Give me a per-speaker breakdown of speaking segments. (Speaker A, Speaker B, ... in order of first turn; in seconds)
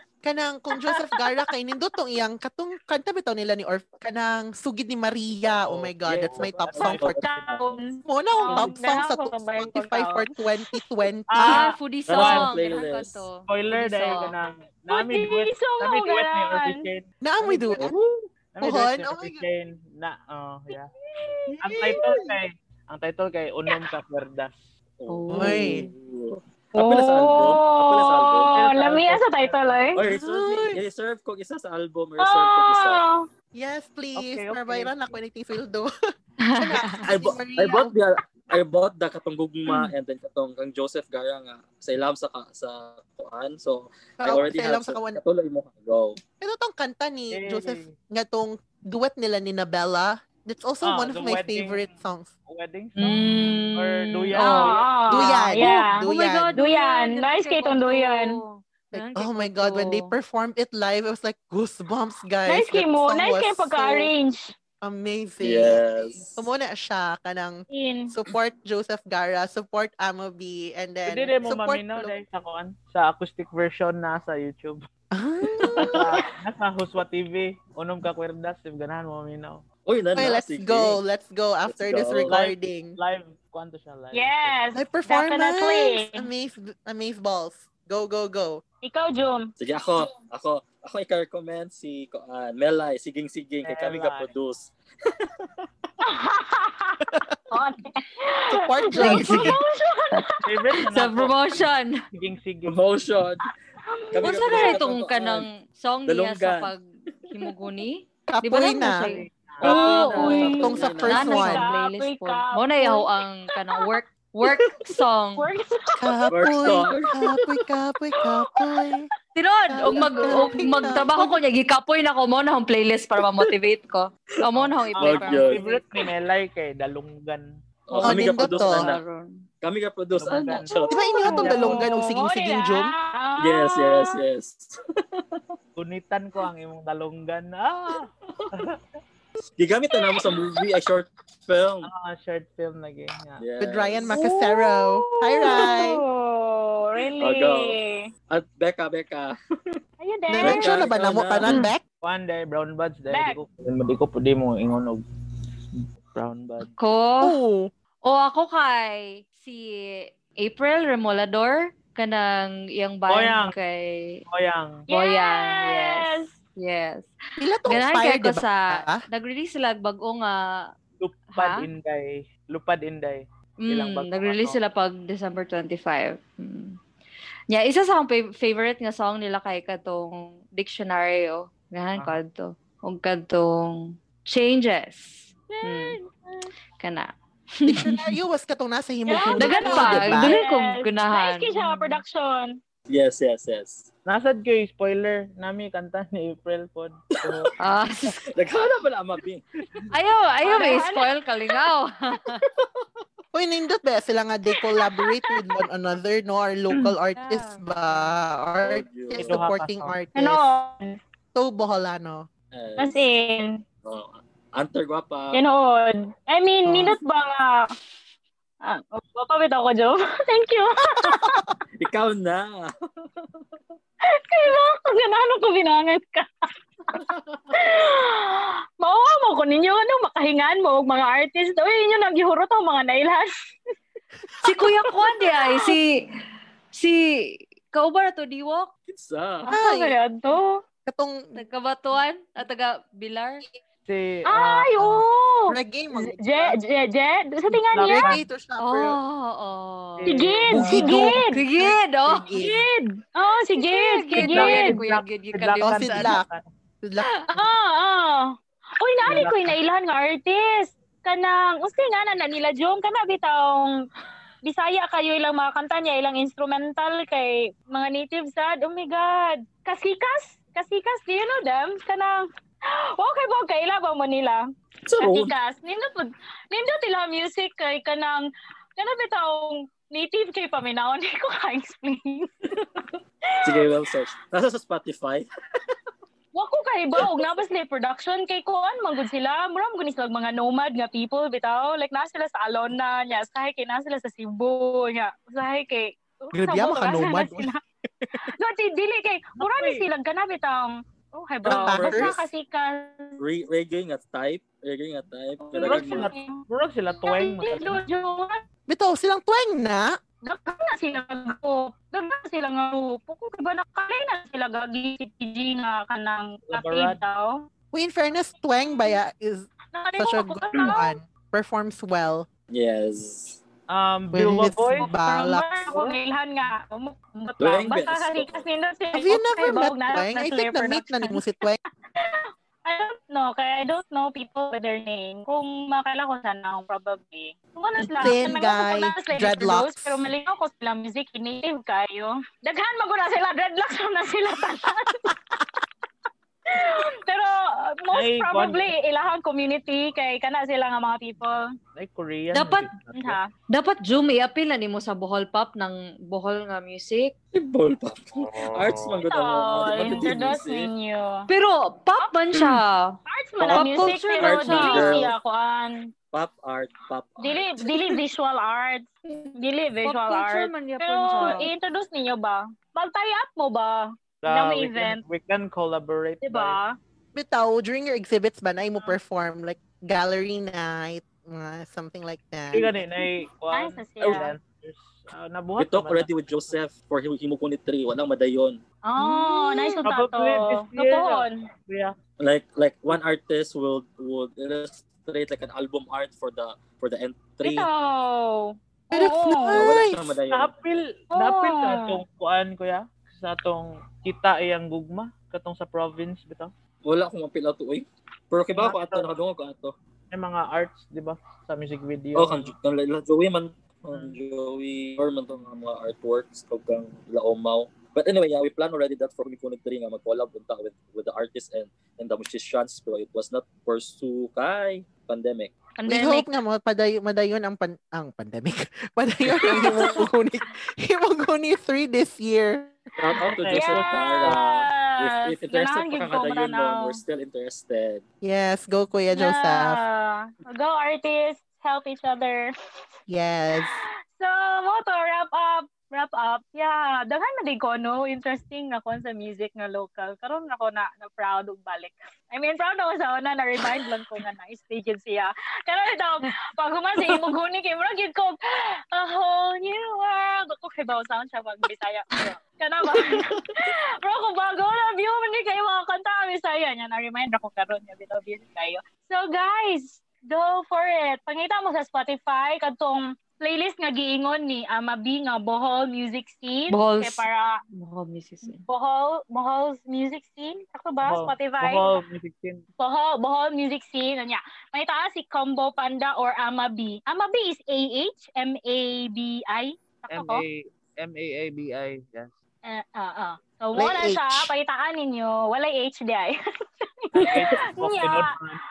Speaker A: 0.2-7.1, 8.0-11.6, 17.2-17.9, 18.6-19.4, 21.5-22.3, 25.3-25.9, 30.1-30.8, 33.5-35.9, 36.6-37.9, 44.2-45.2, 46.4-52.3, 55.1-56.6, 58.9-64.1, 64.8-72.2, 75.1-76.2, 80.2-83.0, 84.8-88.6, 98.5-99.5, 108.3-109.1, 110.2-111.7, 116.0-119.1, 119.7-121.4, 128.0-128.9, 130.9-132.9, 143.6-146.0, 150.3-151.8, 157.2-157.7, 167.4-169.0, 187.7-190.3, 203.3-210.4, 211.3-212.3, 216.7-216.9, 221.1-221.5, 239.5-239.9, 240.9-241.3, 245.5-246.6, 247.9-249.0, 250.5-252.6, 255.6-256.3, 256.8-257.1, 296.3-297.5, 301.4-302.1, 308.7-310.0, 317.7-322.3, 324.1-325.6, 328.9-331.6, 338.0-340.1, 377.1-382.7, 398.9-400.1, 425.9-432.8, 438.2-439.8, 443.1-443.8, 493.8-494.5
Speaker B: 0.9-1.3, 6.9-10.8, 14.9-16.8, 21.2-21.6, 26.8-30.0, 32.2-33.2, 54.3-56.0, 56.6-58.4, 62.5-64.4, 67.7-68.1, 84.1-86.2, 88.8-89.5, 96.0-100.3, 103.9-104.8, 109.7-113.1, 115.4-117.6, 131.2-134.1, 144.1-148.0, 150.0-150.9, 153.1-153.4, 164.9-166.4, 185.5-186.5, 189.1-192.6, 200.4-201.1, 204.8-205.1, 210.2-211.0, 212.8-213.6, 215.3-217.7, 218.6-221.4, 224.3-226.3, 227.6-233.3, 235.1-235.7, 239.4-240.6, 244.3-248.2, 250.1-251.4, 252.4-254.8, 257.4-263.7, 264.4-274.4, 275.0-282.3, 283.3-283.7, 286.3-297.6, 298.2-303.2, 305.5-306.4, 307.0-308.4, 310.2-317.5, 319.7-321.0, 324.8-331.2, 332.0-345.1, 346.5-351.4, 352.9-353.3, 359.0-361.2, 363.1-365.9, 367.2-375.0, 376.2-376.7, 383.5-384.3, 388.9-391.4, 397.4-399.8, 401.1-401.9, 425.8-426.2, 433.5-437.0, 439.1-442.5, 443.8-458.4, 458.9-477.6, 478.4-481.9, 482.8-490.4, 492.6-498.3
Speaker C: 5.5-7.8, 12.1-13.3, 21.8-22.0, 25.0-28.6, 30.0-33.0, 37.1-46.2, 65.4-66.5, 75.5-76.3, 79.8-81.0, 81.7-82.3, 89.6-95.5, 102.7-103.5, 104.1-105.5, 106.1-106.8, 109.6-111.3, 114.5-114.9, 116.3-117.1, 125.0-125.7, 127.9-129.0, 129.6-131.2, 133.4-135.6, 139.6-141.9, 143.4-144.2, 147.2-147.8, 148.3-149.8, 150.4-151.6, 192.9-193.9, 197.2-197.5, 198.3-199.5, 202.5-202.9, 208.6-209.5, 212.5-213.1, 213.8-215.4, 221.8-223.4, 226.9-227.4, 238.9-239.5, 274.9-275.3, 282.5-285.3, 301.5-302.3, 303.2-306.1, 322.5-323.4, 327.4-328.4, 357.3-360.7, 364.2-365.1, 366.1-368.0, 385.6-388.6, 392.2-397.7, 399.5-400.5, 406.8-409.7, 412.1-425.5, 429.3-430.1, 433.0-438.0
Speaker D: 6.2-7.4, 11.3-12.5, 13.4-20.9, 21.6-24.7, 28.6-29.9, 34.2-35.2, 47.3-47.9, 50.8-51.9, 52.5-53.2, 53.8-55.0, 71.1-74.8, 75.8-79.7, 82.3-84.6, 93.6-94.3, 100.5-102.8, 109.0-110.7, 125.0-127.5, 130.2-131.9, 135.8-138.8, 141.8-143.4, 152.0-155.0, 156.1-156.7, 163.1-163.6, 164.3-164.8, 171.0-174.6, 194.1-197.5, 209.2-210.0, 243.9-245.1, 247.5-248.2, 250.0-251.1, 254.2-256.4, 259.1-259.6, 299.4-299.9, 305.6-307.8, 316.4-317.0, 323.7-324.9, 325.7-326.0, 347.9-348.7, 351.8-353.2, 374.2-376.6, 382.5-386.5, 389.8-391.9, 400.3-406.5, 408.6-409.1, 410.1-412.5, 413.9-414.2, 433.2-434.4, 481.0-482.6, 490.1-492.3, 497.1-498.6
Speaker E: 11.4-14.3, 25.1-25.9, 36.5-37.0, 53.0-60.1, 99.0-99.5, 100.9-102.0, 104.2-110.5, 111.1-115.4, 119.3-125.8, 127.9-129.4, 156.6-157.3, 158.1-164.2, 164.9-167.1, 167.7-170.6, 171.3-171.7, 173.6-176.8, 177.5-186.0, 186.8-187.1, 187.6-188.1, 189.4-192.0, 197.6-198.2, 199.9-202.4, 207.2-207.6, 234.4-235.9, 236.7-238.7, 241.3-243.4, 248.6-250.1, 251.3-252.3, 253.6-256.2, 352.3-352.7, 353.5-357.1, 361.3-365.1, 369.8-371.5, 389.5-389.8, 476.7-478.6